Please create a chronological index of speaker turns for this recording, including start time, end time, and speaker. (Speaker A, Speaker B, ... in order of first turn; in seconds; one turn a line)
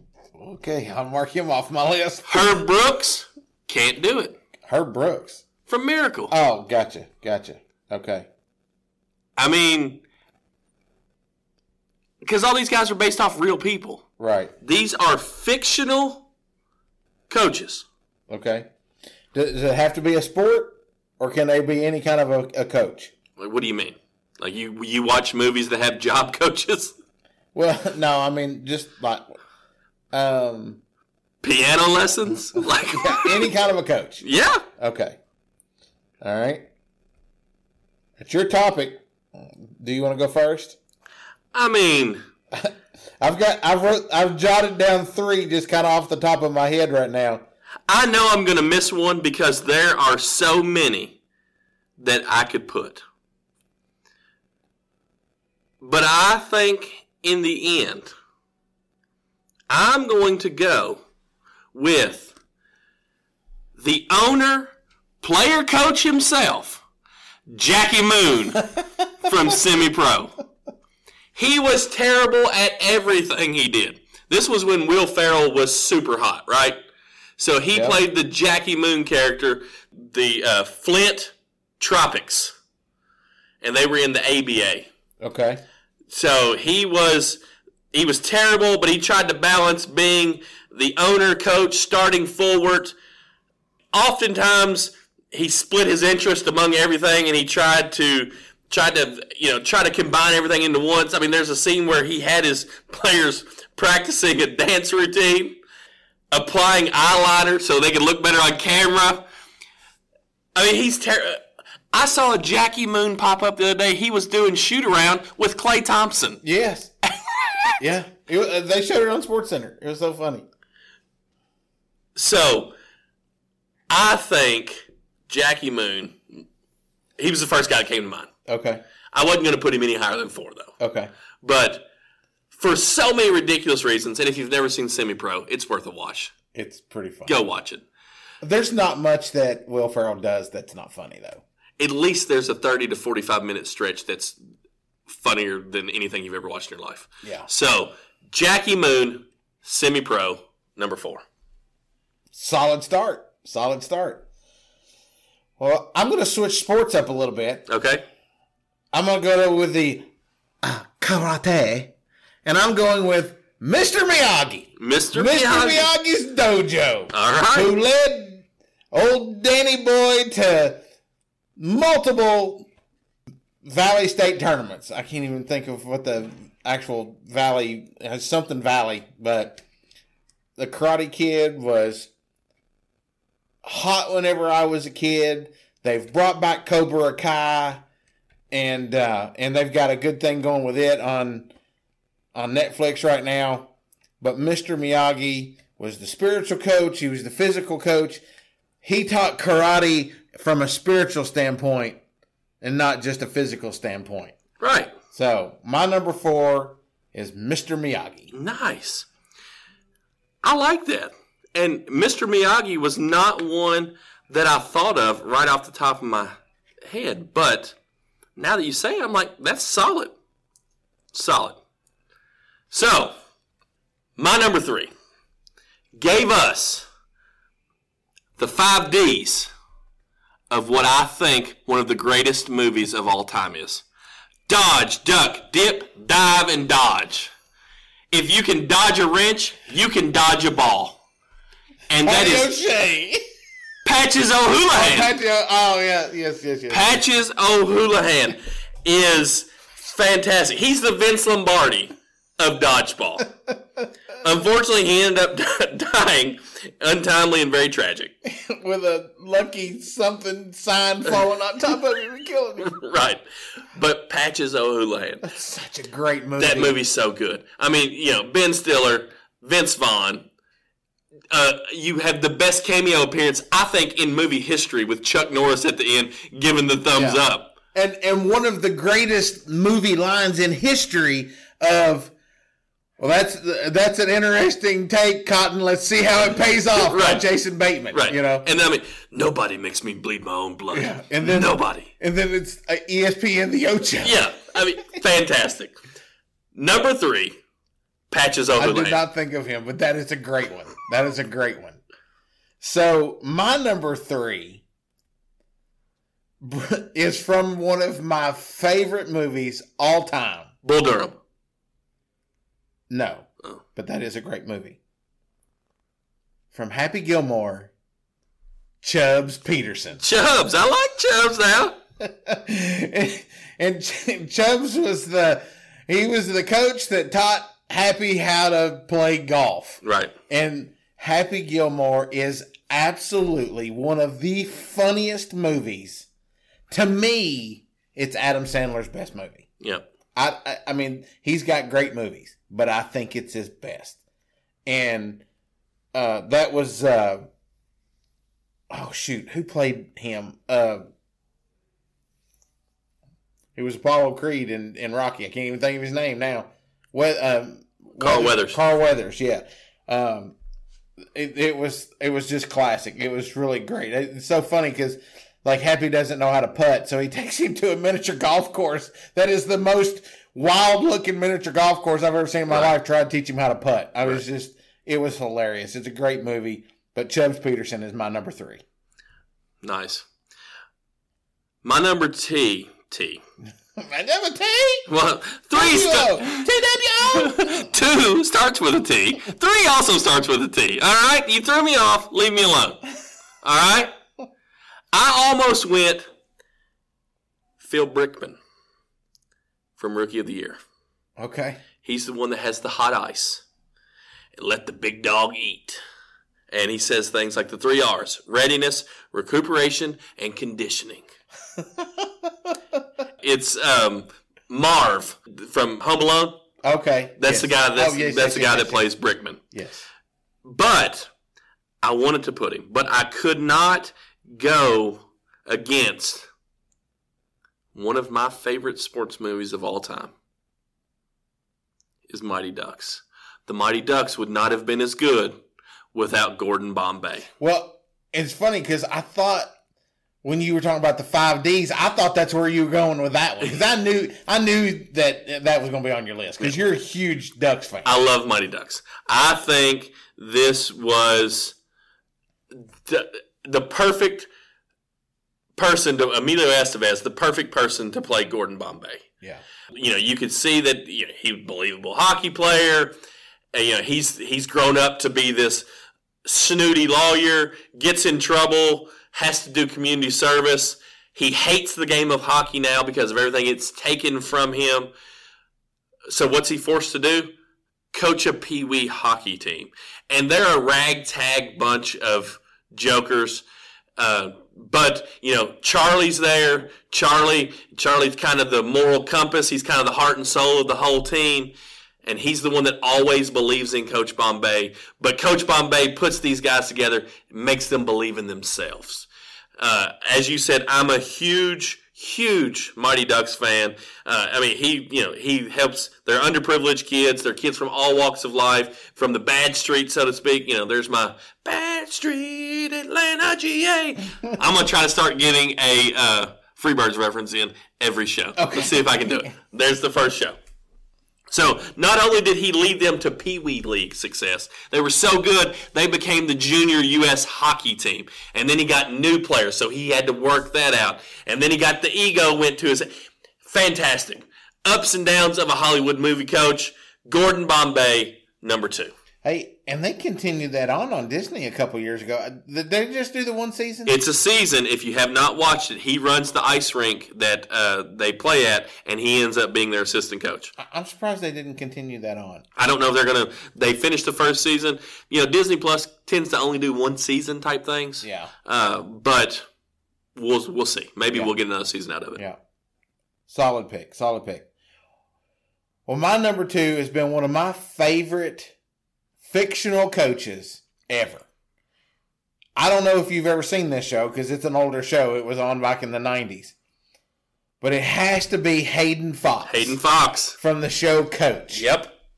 Speaker A: 0.4-2.7
Speaker B: 2.3-4.4
Speaker A: 4.7-5.4
Speaker B: 5.7-6.3
Speaker A: 6.3-8.3
Speaker B: 9.4-10.0
Speaker B: 12.2-14.0
Speaker A: 14.2-14.5
Speaker B: 14.6-16.2
Speaker B: 17.3-17.9
Speaker A: 18.3-18.7
Speaker A: 19.3-23.1
Speaker B: 23.4-26.9
Speaker A: 27.5-29.4
Speaker A: 30.1-30.8
Speaker B: 31.4-33.5
Speaker A: 32.9-34.2
Speaker B: 34.2-34.6
Speaker A: 34.8-35.2
Speaker A: 36.2-36.7
Speaker A: 38.2-40.8
Speaker B: 41.5-42.2
Speaker A: 42.5-47.4
Speaker B: 47.9-51.2
Speaker B: 52.0-53.0
Speaker B: 55.8-58.1
Speaker B: 59.7-61.0
Speaker B: 61.7-62.3
Speaker B: 63.8-66.8
Speaker B: 67.5-68.7
Speaker B: 69.2-70.3
Speaker B: 71.3-76.8
Speaker B: 77.4-82.5
Speaker A: 77.7-78.0
Speaker B: 83.6-84.9
Speaker A: 85.2-85.6
Speaker B: 86.1-87.4
Speaker B: 87.9-93.0
Speaker B: 93.9-105.6
Speaker B: 106.3-109.2
Speaker B: 110.5-116.4
Speaker A: 116.4-116.9
Speaker A: 117.8-120.5
Speaker B: 122.2-122.7
Speaker B: 123.9-126.4
Speaker B: 127.2-128.3
Speaker A: 128.5-128.8
Speaker B: 129.1-130.7
Speaker A: 130.8-131.1
Speaker B: 131.4-131.9
Speaker B: 132.5-136.3
Speaker A: 136.5-137.4
Speaker B: 137.3-137.8
Speaker A: 138.4-141.4
Speaker B: 141.8-144.4
Speaker B: 145.1-151.2
Speaker A: 147.2-147.5
Speaker A: 152.3-154.3
Speaker A: 155.6-157.7
Speaker B: 157.7-158.1
Speaker A: 158.9-160.1
Speaker A: 160.6-161.9
Speaker A: 162.4-170.8
Speaker B: 164.8-165.9
Speaker B: 167.1-167.7
Speaker A: 171.6-172.7
Speaker A: 173.6-179.6
Speaker A: 180.6-182.1
Speaker A: 183.6-187.8
Speaker A: 188.5-191.5
Speaker A: 192.3-198.2
Speaker A: 198.8-202.0
Speaker A: 202.6-204.4
Speaker B: 204.6-204.9
Speaker A: 205.1-208.3
Speaker B: 208.3-209.1
Speaker B: 210.4-216.3
Speaker B: 216.9-217.8
Speaker B: 218.4-220.2
Speaker B: 221.1-221.6
Speaker B: 222.7-223.2
Speaker B: 224.2-224.9
Speaker B: 225.9-226.9
Speaker B: 228.4-229.5
Speaker B: 230.5-233.8
Speaker B: 234.5-237.3
Speaker B: 238.1-241.0
Speaker B: 241.9-242.5
Speaker A: 242.0-243.2
Speaker B: 243.8-245.1
Speaker A: 244.7-247.0
Speaker B: 246.7-253.3
Speaker B: 254.2-258.1
Speaker A: 258.2-262.8
Speaker B: 262.6-263.2
Speaker B: 263.7-265.3
Speaker A: 265.2-266.8
Speaker B: 266.4-270.3
Speaker B: 271.3-277.5
Speaker A: 277.0-277.2
Speaker A: 277.7-282.1
Speaker A: 283.0-288.5
Speaker B: 286.7-287.2
Speaker B: 287.9-291.9
Speaker A: 290.7-295.0
Speaker B: 294.0-295.8
Speaker B: 296.6-297.4
Speaker B: 298.1-299.0
Speaker A: 298.6-301.8
Speaker A: 302.6-304.6
Speaker A: 306.4-310.5
Speaker B: 310.6-311.2
Speaker A: 312.9-314.8
Speaker A: 316.5-317.7
Speaker A: 318.8-320.1
Speaker B: 320.0-321.8
Speaker A: 322.0-336.1
Speaker B: 329.8-330.1
Speaker A: 336.7-339.5
Speaker B: 339.6-339.9
Speaker A: 340.1-344.0
Speaker A: 344.7-345.2
Speaker A: 345.9-347.3
Speaker A: 348.7-350.9
Speaker A: 353.6-360.4
Speaker B: 358.0-358.6
Speaker A: 361.1-378.6
Speaker B: 379.6-380.1
Speaker B: 381.6-383.2
Speaker A: 383.8-384.9
Speaker B: 384.9-386.4
Speaker A: 385.5-387.7
Speaker B: 387.1-392.8
Speaker B: 393.4-393.9
Speaker B: 394.9-396.1
Speaker B: 397.6-398.4
Speaker B: 399.8-400.6
Speaker A: 401.2-401.6
Speaker B: 401.8-403.4
Speaker B: 404.4-405.8
Speaker B: 406.5-411.1
Speaker A: 411.6-412.5
Speaker B: 413.2-416.4
Speaker A: 416.6-418.9
Speaker B: 417.2-419.4
Speaker A: 419.5-419.9
Speaker B: 420.4-421.1
Speaker B: 421.8-426.3
Speaker B: 427.7-430.1
Speaker B: 432.1-435.4
Speaker B: 435.9-437.3
Speaker A: 437.4-439.5
Speaker A: 440.2-448.0
Speaker B: 447.9-451.6
Speaker B: 452.5-454.3
Speaker B: 455.6-459.0
Speaker B: 459.7-462.9
Speaker B: 463.5-465.7
Speaker B: 466.2-474.9
Speaker B: 476.1-477.3
Speaker B: 477.9-483.4
Speaker B: 484.0-520.4
Speaker A: 518.4-519.3
Speaker B: 521.3-532.9
Speaker B: 533.4-538.9
Speaker A: 539.2-544.0
Speaker B: 543.9-550.5
Speaker A: 550.6-552.5
Speaker B: 552.6-559.5
Speaker A: 558.0-558.3
Speaker B: 560.1-562.2
Speaker A: 563.3-564.5
Speaker A: 565.9-568.5
Speaker A: 569.2-571.2
Speaker A: 572.6-576.5
Speaker A: 577.6-579.8
Speaker B: 579.5-580.4
Speaker A: 580.4-581.6
Speaker B: 581.5-581.9